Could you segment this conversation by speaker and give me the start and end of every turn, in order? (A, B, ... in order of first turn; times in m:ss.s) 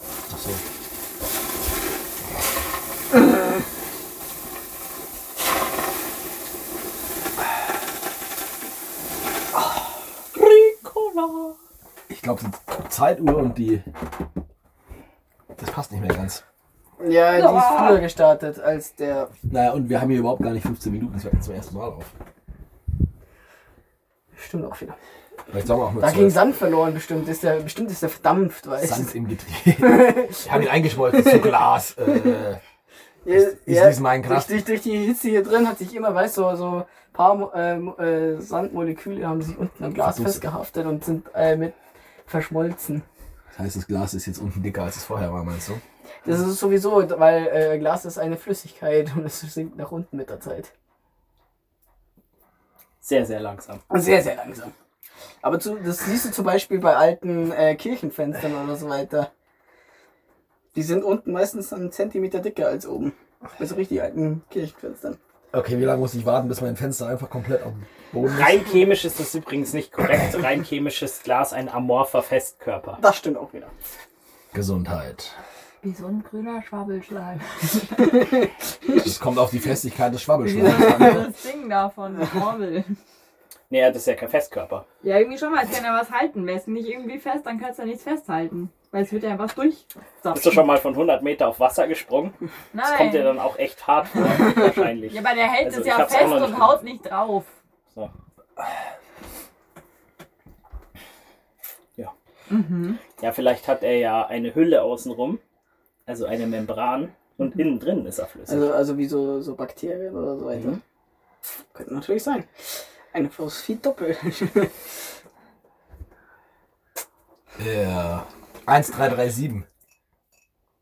0:00.3-0:00.6 A
0:10.3-0:11.6 B
0:12.1-0:13.8 A
0:15.6-0:16.4 A
0:17.0-0:19.3 C
0:17.3-0:18.1 D
0:19.5-0:22.1 A
0:24.3-0:25.0 C
0:25.5-0:26.4 A
0:26.0-0:29.1 C
0:28.8-0:32.6 A
0:29.8-0:31.6 C
0:33.2-0:41.7 C
0:33.3-0:34.6 A
0:40.0-0:40.4 A
0:42.3-0:43.0 C
0:43.5-0:45.8 A
0:46.2-0:50.7 C
0:53.0-0:53.8 B
0:53.9-0:54.7 C
0:55.4-0:59.3 C
1:00.7-1:05.2 C
1:05.5-1:08.7 A
1:08.3-1:13.0 B
1:13.0-1:13.7 C
1:14.5-1:15.3 A
1:15.8-1:18.3 D
1:19.0-1:21.3 A
1:20.4-1:23.0 D
1:23.7-1:24.8 B
1:25.0-1:30.7 D
1:30.3-1:36.8 B
1:32.7-1:33.3 D
1:35.1-1:37.5 D
1:42.5-1:43.0 D
1:43.2-1:45.4 B
1:46.0-1:48.8 B
1:48.5-1:50.8 C
1:51.7-1:52.5 C
1:53.1-1:54.7 C
1:57.6-1:59.6 A